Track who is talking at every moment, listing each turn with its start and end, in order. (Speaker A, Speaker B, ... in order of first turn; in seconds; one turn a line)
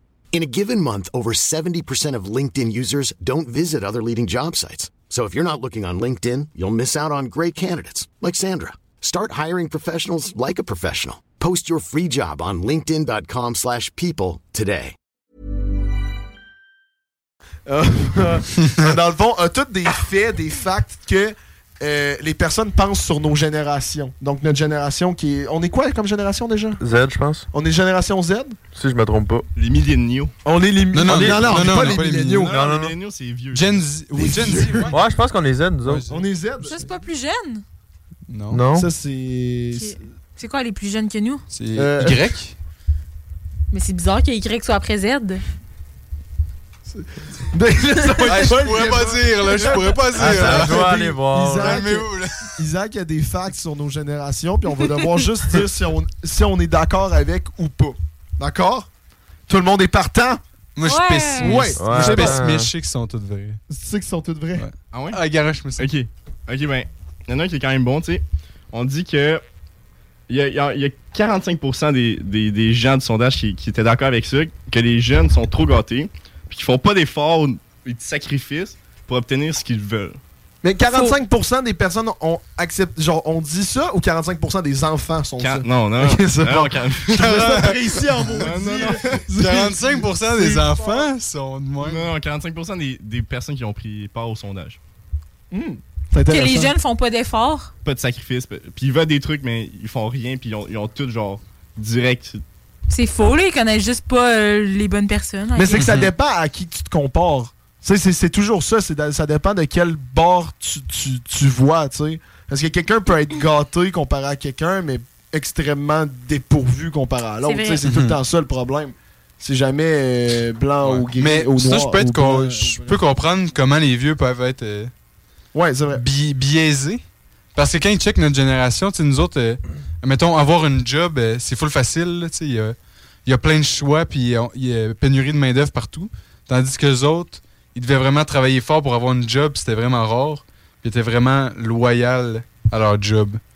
Speaker A: 0.3-14.9
Speaker B: 17.7-26.8
Speaker C: 26.8-27.5
Speaker B: 27.5-28.6
Speaker C: 28.7-29.5
Speaker D: 29.6-30.3
Speaker B: 30.4-32.6
Speaker E: 30.9-32.5
Speaker C: 31.0-31.8
Speaker D: 31.9-33.9
Speaker C: 32.5-33.0
Speaker E: 33.5-35.0
Speaker B: 34.1-34.9
Speaker C: 34.9-36.1
Speaker E: 35.9-36.2
Speaker B: 36.1-36.9
Speaker F: 36.6-37.6
Speaker E: 38.3-38.6
Speaker C: 38.5-38.9
Speaker B: 38.7-40.0
Speaker F: 39.8-41.4
Speaker E: 41.5-42.5
Speaker B: 41.7-42.2
Speaker F: 43.7-45.4
Speaker B: 46.9-58.9
Speaker E: 48.2-51.0
Speaker C: 50.2-51.8
Speaker E: 51.6-52.5
Speaker B: 59.5-60.4
Speaker E: 60.8-63.6
Speaker F: 60.9-61.6
Speaker B: 61.4-62.4
Speaker C: 61.8-62.7
Speaker B: 63.7-64.7
Speaker E: 64.6-65.9
Speaker D: 64.9-65.2
Speaker D: 65.8-69.4
Speaker D: 70.3-80.2
Speaker B: 80.6-91.1
Speaker D: 85.4-87.2
Speaker E: 87.1-88.5
Speaker D: 88.4-89.2
Speaker E: 89.3-92.1
Speaker D: 91.8-94.8
Speaker B: 95.5-96.8
Speaker F: 96.3-97.7
Speaker D: 97.8-102.4
Speaker F: 102.9-105.9
Speaker B: 105.6-123.0
Speaker E: 105.8-106.1
Speaker F: 117.5-117.8
Speaker E: 117.8-118.2
Speaker E: 120.8-124.9
Speaker B: 125.5-126.0
Speaker E: 125.9-127.0
Speaker E: 127.5-143.4